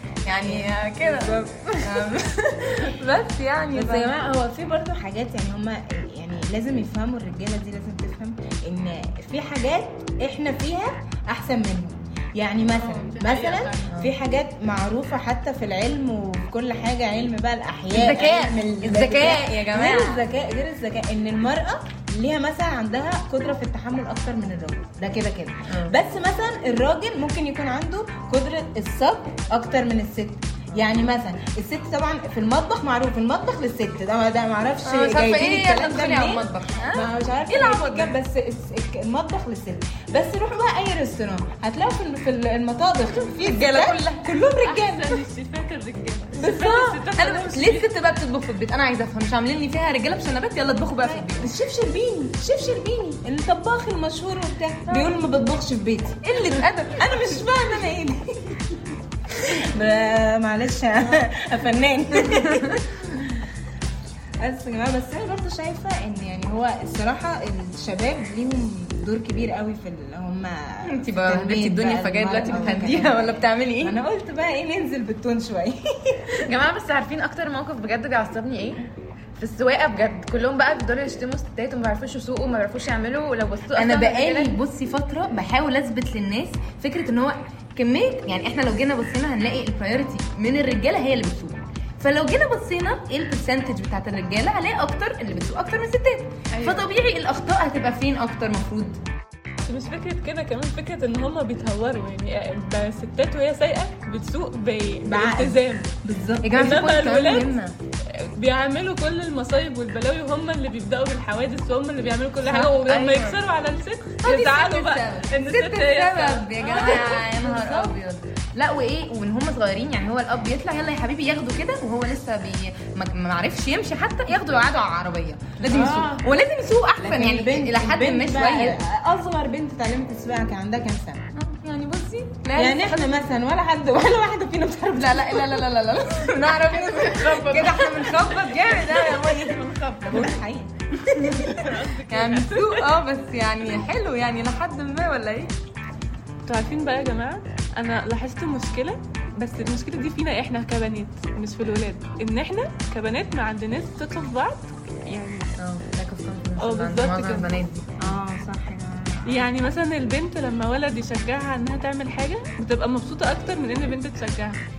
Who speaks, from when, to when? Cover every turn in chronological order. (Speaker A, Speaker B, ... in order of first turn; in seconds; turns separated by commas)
Speaker A: 0.2-4.2, Speaker B: 0.4-2.1, Speaker B: 3.7-45.2, Speaker C: 12.7-13.9, Speaker A: 17.9-20.2, Speaker A: 25.7-26.0, Speaker A: 34.8-38.1, Speaker A: 43.3-44.3, Speaker C: 44.5-47.9, Speaker B: 46.4-46.7, Speaker A: 46.4-51.5, Speaker B: 51.0-58.9, Speaker A: 54.9-55.3, Speaker A: 56.2-57.6, Speaker B: 59.5-63.4, Speaker A: 62.3-62.8, Speaker B: 64.4-76.4, Speaker A: 70.9-73.9, Speaker D: 76.4-78.8, Speaker D: 79.4-84.5, Speaker A: 83.7-99.0, Speaker C: 96.5-96.9, Speaker C: 99.6-105.9, Speaker B: 105.0-106.6, Speaker A: 106.4-107.7, Speaker C: 106.5-107.5, Speaker C: 108.4-117.9, Speaker A: 112.4-113.4, Speaker A: 114.2-128.8, Speaker B: 125.7-126.4, Speaker B: 127.0-131.2, Speaker A: 131.3-133.2, Speaker B: 132.6-135.6, Speaker A: 134.9-139.6, Speaker C: 136.9-140.3, Speaker B: 140.0-141.6, Speaker A: 141.1-145.5, Speaker C: 141.5-142.9, Speaker C: 146.4-155.5, Speaker A: 155.6-158.2, Speaker C: 156.6-157.6, Speaker B: 158.0-159.5, Speaker C: 159.3-164.6